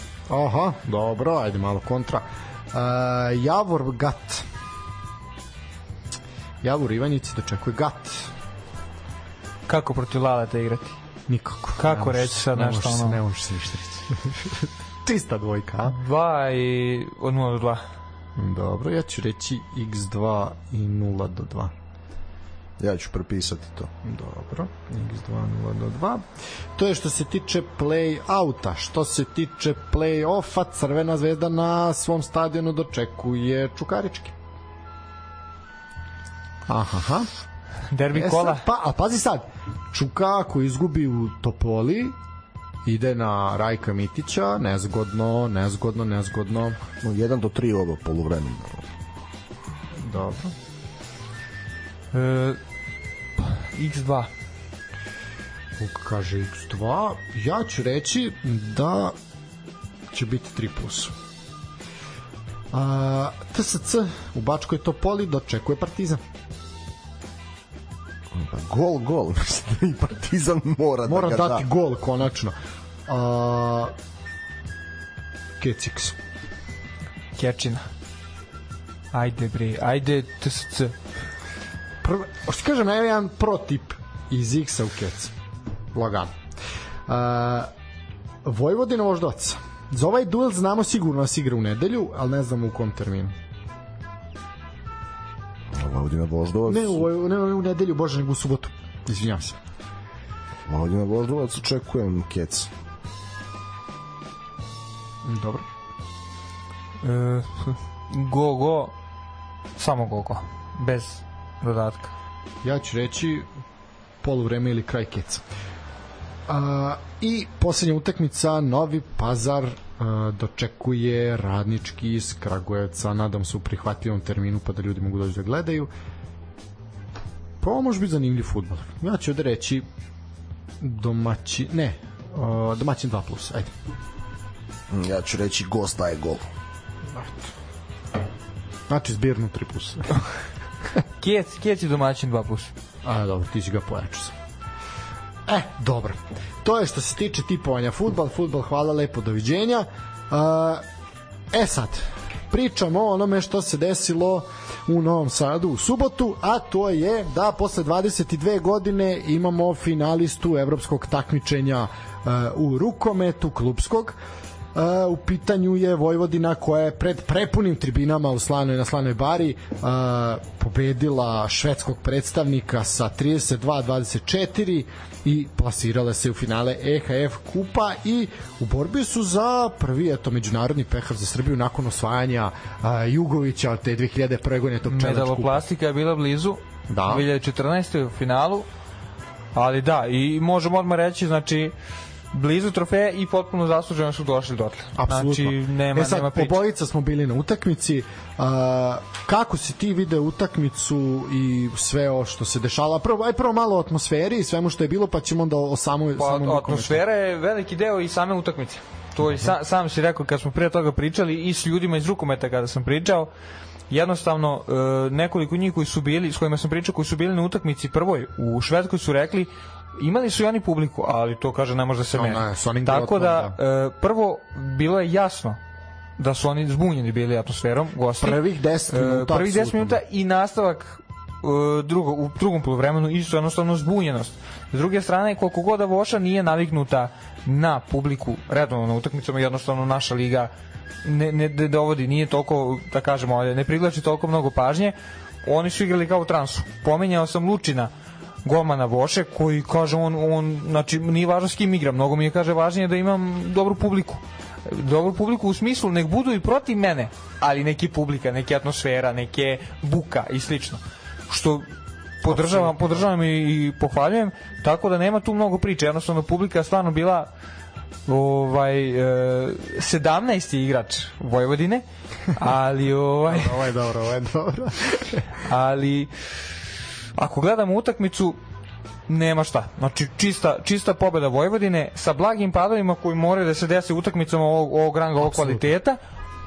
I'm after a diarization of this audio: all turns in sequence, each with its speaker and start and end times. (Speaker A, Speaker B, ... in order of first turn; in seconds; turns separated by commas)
Speaker A: 0.3-4.5, Speaker A: 6.6-8.3, Speaker B: 9.7-11.0, Speaker A: 11.3-16.0, Speaker B: 11.8-13.2, Speaker B: 15.9-17.8, Speaker A: 18.4-21.7, Speaker C: 22.8-23.9, Speaker A: 24.0-34.3, Speaker A: 36.7-37.3, Speaker B: 37.9-38.6, Speaker A: 38.1-42.2, Speaker A: 42.9-46.8, Speaker C: 47.0-48.8, Speaker A: 50.0-50.5, Speaker B: 52.1-52.6, Speaker B: 53.4-54.3, Speaker A: 55.8-59.2, Speaker A: 60.1-61.1, Speaker A: 62.7-66.2, Speaker C: 68.3-71.7, Speaker A: 71.1-72.6, Speaker A: 73.1-73.9, Speaker A: 75.6-76.2, Speaker B: 77.4-77.9, Speaker B: 79.1-80.9, Speaker A: 82.0-85.3, Speaker A: 85.9-86.3, Speaker A: 87.1-87.7, Speaker A: 88.5-93.4, Speaker C: 95.8-97.0, Speaker A: 96.7-99.6, Speaker C: 100.7-102.7, Speaker A: 105.2-105.7, Speaker B: 107.0-108.9, Speaker B: 109.8-112.1, Speaker A: 112.6-113.5, Speaker A: 114.2-115.5, Speaker A: 116.5-125.9, Speaker A: 127.6-129.9, Speaker A: 130.8-133.7, Speaker C: 134.9-136.5, Speaker A: 137.1-137.5, Speaker A: 138.9-140.3, Speaker B: 141.2-142.7, Speaker A: 143.0-144.3, Speaker A: 145.5-150.8, Speaker A: 151.5-164.2, Speaker A: 164.7-185.7, Speaker B: 184.9-188.7, Speaker A: 186.9-187.3, Speaker B: 189.6-191.7, Speaker B: 192.3-196.6, Speaker A: 194.9-207.0, Speaker B: 206.2-213.3, Speaker A: 209.2-209.5, Speaker B: 213.9-225.6, Speaker A: 222.1-223.6, Speaker B: 226.2-240.5, Speaker A: 228.2-230.0, Speaker B: 241.0-247.9, Speaker B: 248.4-261.7, Speaker B: 262.2-267.3, Speaker A: 262.2-263.0, Speaker B: 268.1-273.6, Speaker A: 273.3-275.3, Speaker B: 275.4-276.1, Speaker B: 277.2-278.4, Speaker B: 279.1-286.0, Speaker A: 285.2-285.7